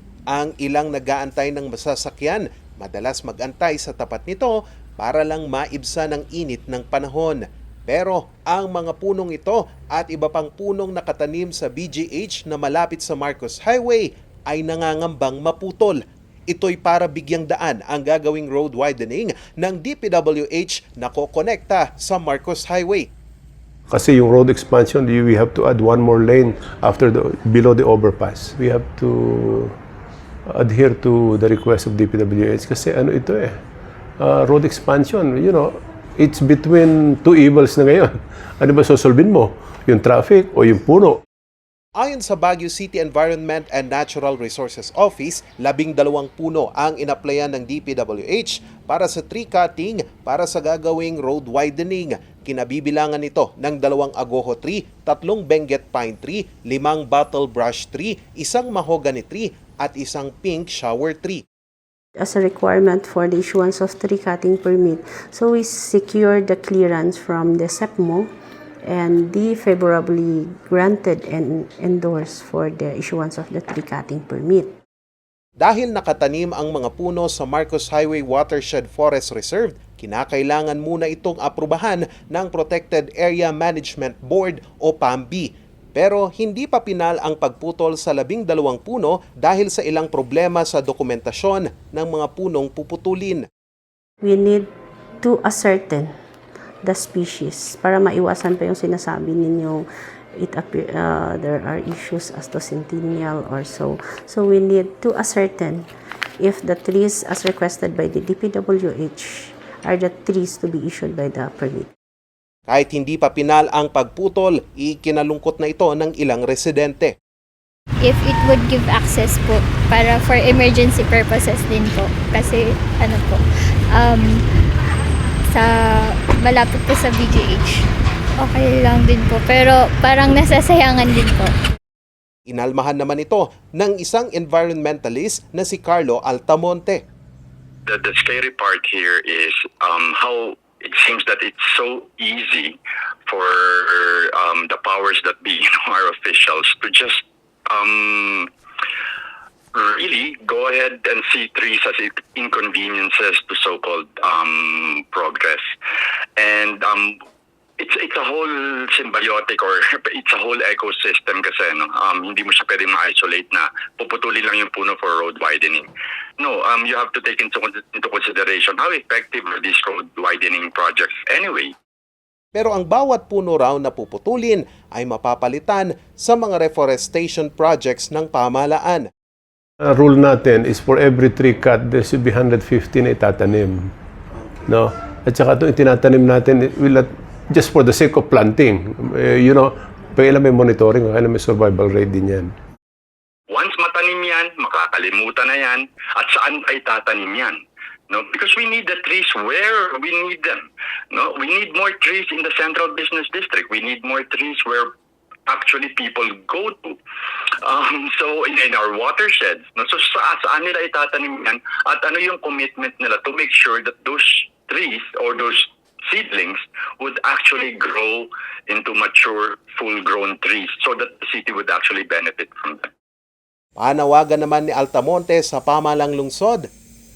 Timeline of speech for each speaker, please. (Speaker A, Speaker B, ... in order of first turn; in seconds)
Speaker A: 0.3-23.1, 42.0-61.4, 75.6-93.5, 112.7-117.1, 132.5-137.0, 172.5-179.1, 223.8-226.7
Speaker B: 23.9-29.7, 30.5-33.6, 34.2-41.2, 179.8-183.9, 184.7-192.5
Speaker C: 62.2-68.3, 68.8-74.7, 94.2-94.7, 95.2-96.1, 96.8-99.8, 100.4-105.9, 106.4-111.9
Speaker D: 118.0-123.4, 123.9-124.4, 125.5-127.8, 128.4-131.5
Speaker E: 137.8-148.5, 149.7-155.6, 156.4-157.2, 157.8-165.9, 166.4-171.7, 193.5-204.9, 205.4-207.0, 207.6-222.9